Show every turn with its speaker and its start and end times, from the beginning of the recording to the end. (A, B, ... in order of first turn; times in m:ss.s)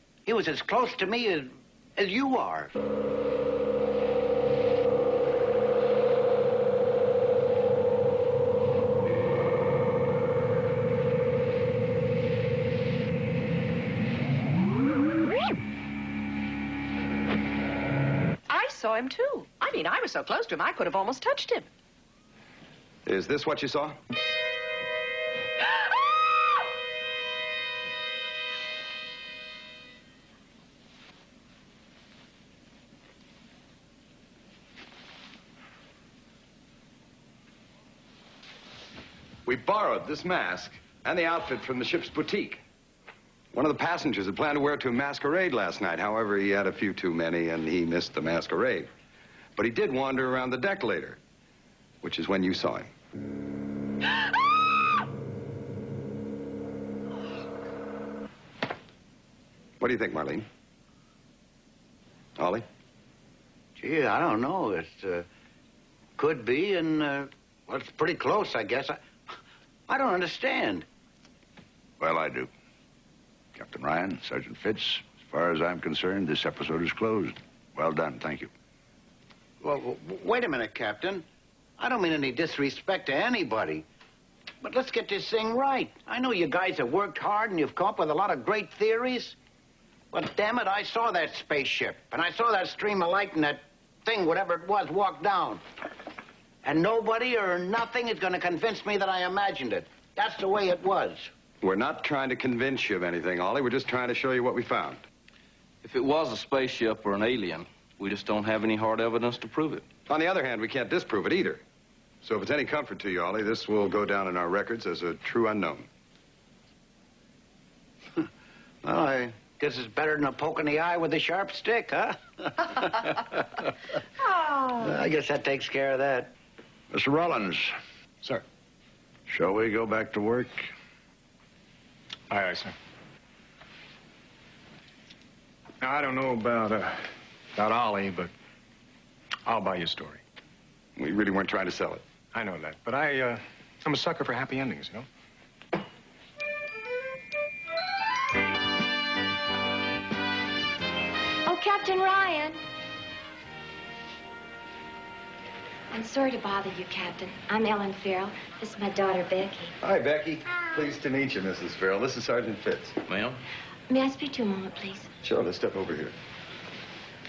0:00.3-0:02.7 A
0:18.5-0:21.7 B
0:23.1-0:24.0 C
0:39.5-0:42.6 C
0:43.5-0:48.9 C
0:49.6-0:51.2 C
0:52.0-0:52.9 C
0:59.8-1:00.5 C
1:02.4-1:02.7 C
1:03.8-1:05.3 A
1:06.2-1:09.0 A
1:09.9-1:10.9 A
1:12.0-1:12.5 D
1:13.6-1:18.5 D
1:19.6-1:21.3 A
1:21.8-1:23.9 A
1:24.6-1:29.4 A
1:30.1-1:35.6 A
1:36.6-1:41.3 A
1:41.6-1:45.0 C
1:45.8-1:49.9 E
1:50.1-1:51.6 C
1:52.2-1:55.9 C
1:58.8-2:03.2 A
2:04.7-2:06.3 A
2:06.9-2:07.7 D
2:09.3-2:10.7 D
2:12.3-2:12.7 F
2:15.8-2:18.3 F
2:19.5-2:20.2 F
2:21.0-2:22.0 C
2:22.3-2:25.1 F
2:31.5-2:32.6 G
2:35.9-2:39.8 G
2:39.8-2:43.0 C
2:43.1-2:43.4 E
2:43.9-2:45.1 G
2:45.2-2:46.1 C